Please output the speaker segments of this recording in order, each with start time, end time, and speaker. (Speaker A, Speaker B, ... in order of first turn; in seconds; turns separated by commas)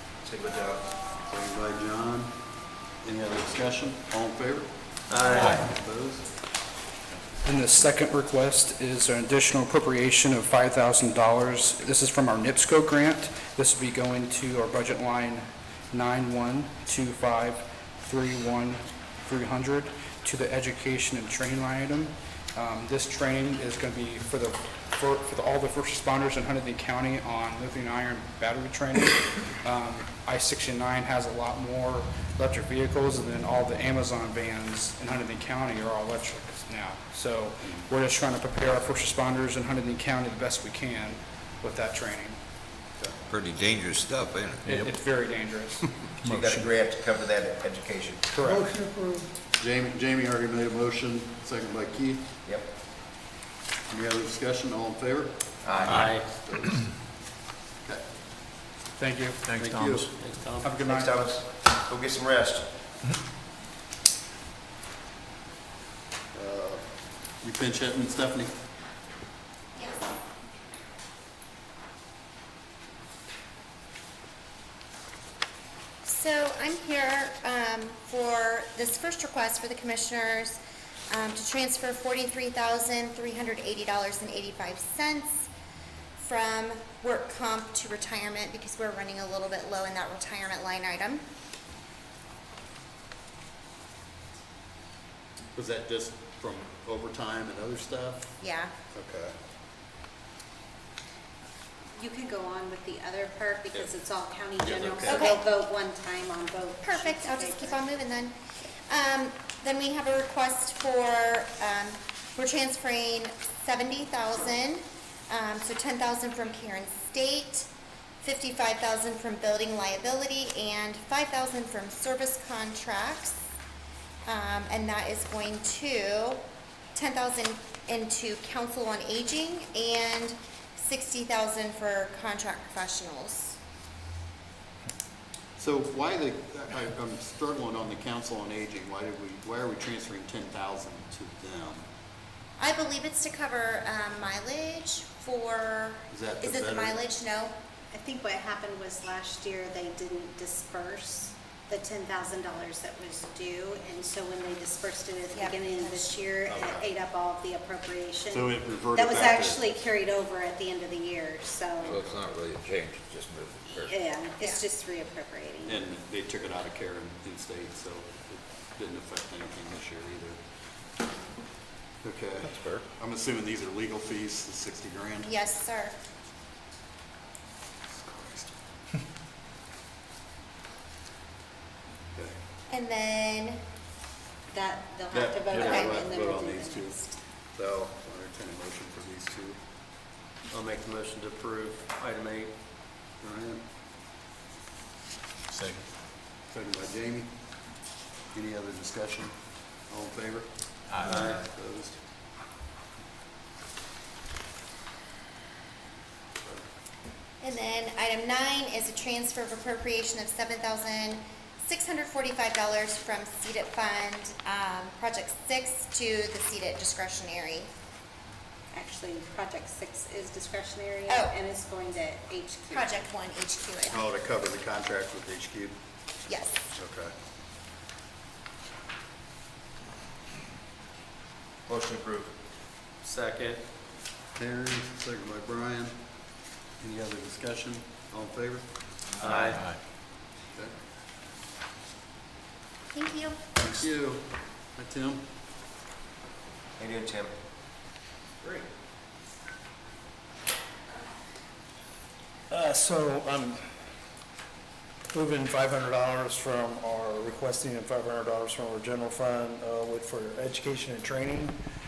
Speaker A: 0.2-0.8, Speaker B: 1.3-2.3, Speaker B: 3.0-6.3, Speaker C: 5.1-5.6, Speaker D: 5.2-5.4, Speaker E: 7.4-42.4, Speaker F: 43.3-44.9, Speaker E: 44.6-46.6, Speaker A: 46.2-48.6, Speaker E: 48.3-48.6, Speaker G: 48.5-49.3, Speaker B: 49.6-52.3, Speaker B: 53.9-56.9, Speaker A: 55.6-56.0, Speaker E: 59.0-59.6, Speaker B: 59.5-60.1, Speaker E: 60.5-61.3, Speaker A: 60.7-62.7, Speaker B: 66.3-68.5, Speaker H: 76.0-80.6, Speaker H: 81.1-85.5, Speaker H: 86.2-91.2, Speaker B: 95.5-98.3, Speaker H: 98.4-98.7, Speaker B: 98.9-99.3, Speaker C: 102.0-108.0, Speaker B: 104.6-105.3, Speaker H: 105.0-105.4, Speaker H: 106.8-108.4, Speaker H: 108.9-117.7, Speaker H: 118.2-123.4, Speaker H: 124.2-126.4, Speaker H: 126.9-133.6, Speaker B: 135.6-141.8, Speaker H: 142.6-147.6, Speaker B: 146.1-147.0, Speaker C: 147.9-162.0, Speaker H: 155.3-156.2, Speaker B: 156.5-156.9, Speaker B: 158.3-159.7, Speaker B: 161.8-162.2, Speaker F: 161.8-164.0, Speaker C: 163.8-165.8, Speaker H: 164.4-164.6, Speaker B: 165.6-170.4, Speaker B: 172.0-175.3, Speaker F: 172.4-172.8, Speaker H: 175.2-175.9, Speaker B: 177.9-178.5, Speaker H: 182.7-183.6, Speaker C: 184.5-187.1, Speaker B: 185.1-187.0, Speaker H: 185.6-186.1, Speaker B: 187.5-189.6, Speaker D: 190.5-192.5, Speaker B: 193.2-193.6, Speaker B: 196.5-197.3, Speaker B: 198.3-199.3, Speaker B: 199.9-202.0, Speaker H: 207.4-217.7, Speaker C: 218.7-223.0, Speaker H: 221.1-221.3, Speaker H: 222.7-224.0, Speaker B: 223.9-225.8, Speaker H: 226.3-226.6, Speaker B: 226.7-227.1, Speaker A: 231.7-232.3, Speaker C: 233.1-233.6, Speaker B: 234.3-236.0, Speaker B: 236.8-239.6, Speaker C: 239.2-239.6, Speaker H: 242.9-243.4, Speaker B: 243.6-244.2, Speaker B: 244.8-245.2, Speaker A: 246.8-247.3, Speaker G: 252.5-253.7, Speaker G: 255.1-261.6